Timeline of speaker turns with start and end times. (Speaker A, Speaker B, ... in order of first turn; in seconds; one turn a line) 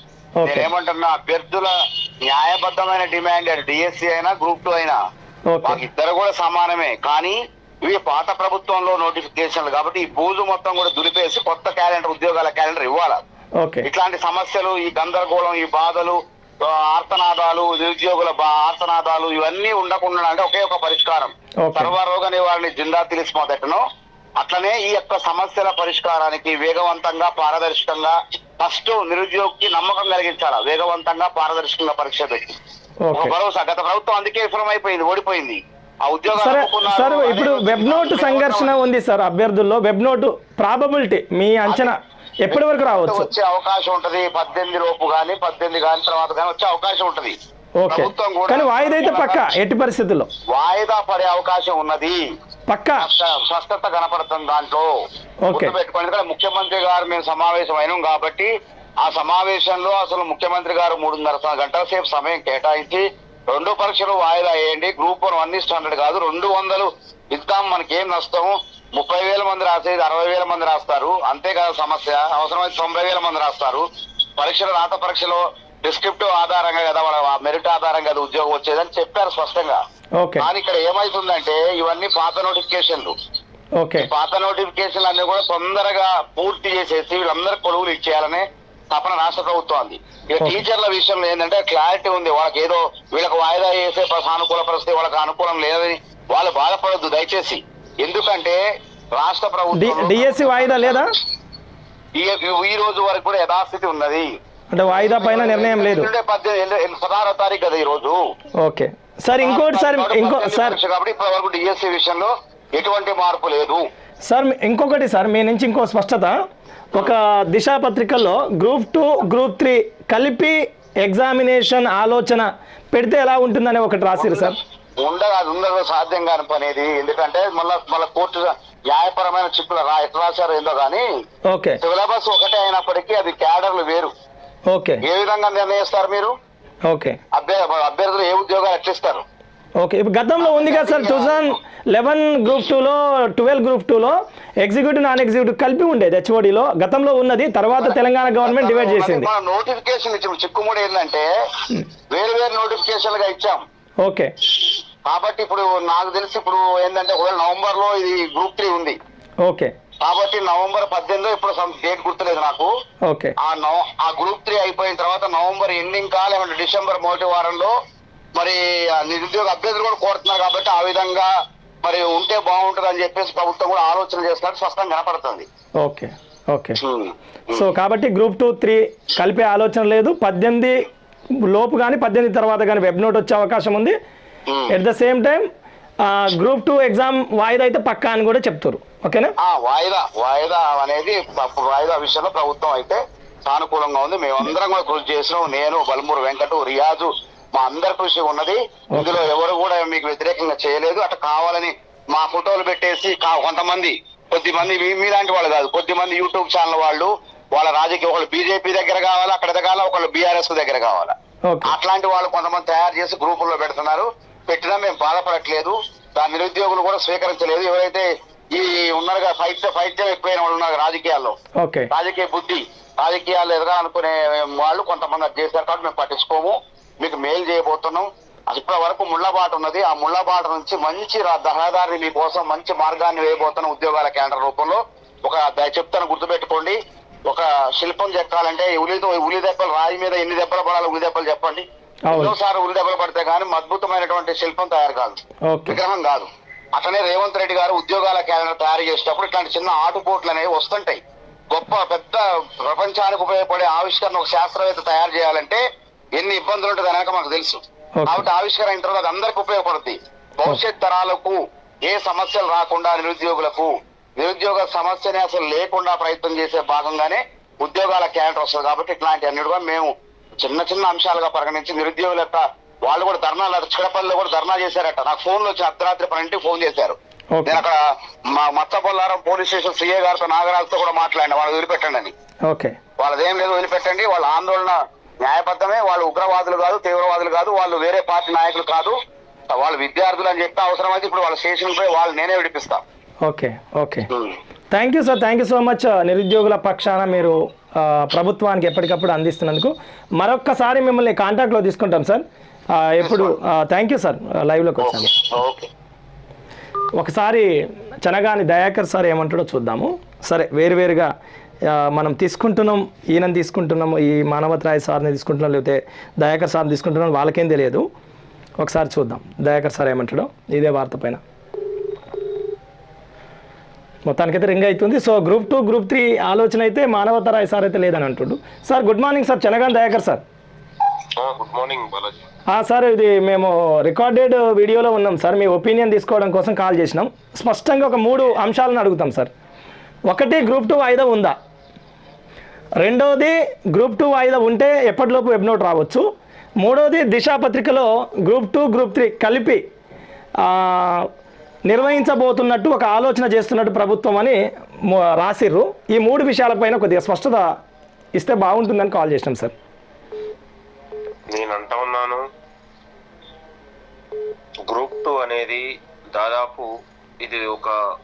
Speaker A: 0.4-0.7
Speaker B: 0.4-1.7
Speaker B: 2.3-5.0
Speaker A: 5.5-5.8
Speaker B: 5.6-13.2
Speaker A: 13.6-13.9
Speaker B: 13.8-23.8
Speaker A: 21.6-21.9
Speaker B: 24.4-32.6
Speaker A: 33.0-33.3
Speaker B: 33.1-38.7
Speaker A: 36.4-42.0
Speaker B: 41.7-41.9
Speaker A: 42.5-43.3
Speaker B: 42.5-47.4
Speaker A: 47.8-50.3
Speaker B: 47.9-49.5
Speaker B: 50.5-52.2
Speaker A: 52.7-53.0
Speaker B: 53.0-54.9
Speaker A: 55.5-55.7
Speaker B: 55.5-58.5
Speaker B: 59.0-73.8
Speaker B: 74.4-79.8
Speaker A: 80.2-80.5
Speaker B: 80.4-83.1
Speaker A: 83.8-84.1
Speaker B: 84.0-98.6
Speaker B: 99.1-101.1
Speaker A: 99.8-101.1
Speaker B: 102.2-104.3
Speaker A: 104.7-106.1
Speaker B: 104.9-108.2
Speaker A: 108.6-110.8
Speaker B: 109.4-113.8
Speaker A: 114.3-116.3
Speaker A: 116.9-124.6
Speaker B: 124.2-131.0
Speaker A: 131.5-131.8
Speaker B: 131.8-134.1
Speaker A: 134.7-135.0
Speaker B: 135.0-136.3
Speaker A: 136.9-137.2
Speaker B: 137.3-139.2
Speaker A: 139.8-149.3
Speaker B: 140.4-141.4
Speaker B: 147.8-151.3
Speaker B: 152.1-153.6
Speaker A: 154.0-154.3
Speaker B: 155.1-159.0
Speaker A: 159.4-159.7
Speaker B: 160.0-162.7
Speaker A: 163.1-163.4
Speaker B: 163.4-167.7
Speaker B: 168.3-171.3
Speaker B: 171.8-175.4
Speaker A: 175.8-176.8
Speaker B: 176.8-177.7
Speaker A: 177.5-180.8
Speaker A: 181.5-184.0
Speaker A: 184.7-185.4
Speaker A: 186.0-189.3
Speaker B: 189.4-211.1
Speaker A: 198.9-199.2
Speaker A: 211.5-211.7
Speaker B: 211.6-221.3
Speaker A: 221.6-221.9
Speaker B: 221.9-251.0
Speaker A: 242.1-242.3
Speaker A: 245.5-245.8
Speaker B: 251.5-255.6
Speaker B: 256.2-277.8
Speaker A: 258.0-258.3
Speaker A: 277.3-277.6
Speaker B: 278.3-282.1
Speaker A: 282.5-282.8
Speaker B: 283.0-288.9
Speaker B: 289.5-292.8
Speaker A: 293.2-294.1
Speaker B: 294.1-294.4
Speaker A: 294.7-302.2
Speaker A: 302.8-305.1
Speaker B: 303.0-303.3
Speaker B: 304.8-305.7
Speaker A: 307.0-307.5
Speaker A: 308.0-311.1
Speaker A: 311.7-317.9
Speaker A: 318.6-321.2
Speaker A: 324.1-330.2
Speaker C: 331.2-332.2
Speaker A: 332.5-339.3
Speaker A: 340.1-341.4
Speaker A: 342.8-346.0
Speaker A: 346.6-349.6
Speaker A: 350.4-351.1
Speaker A: 351.7-357.5
Speaker A: 358.2-359.5
Speaker C: 361.3-362.2
Speaker C: 364.7-366.7
Speaker C: 367.2-367.7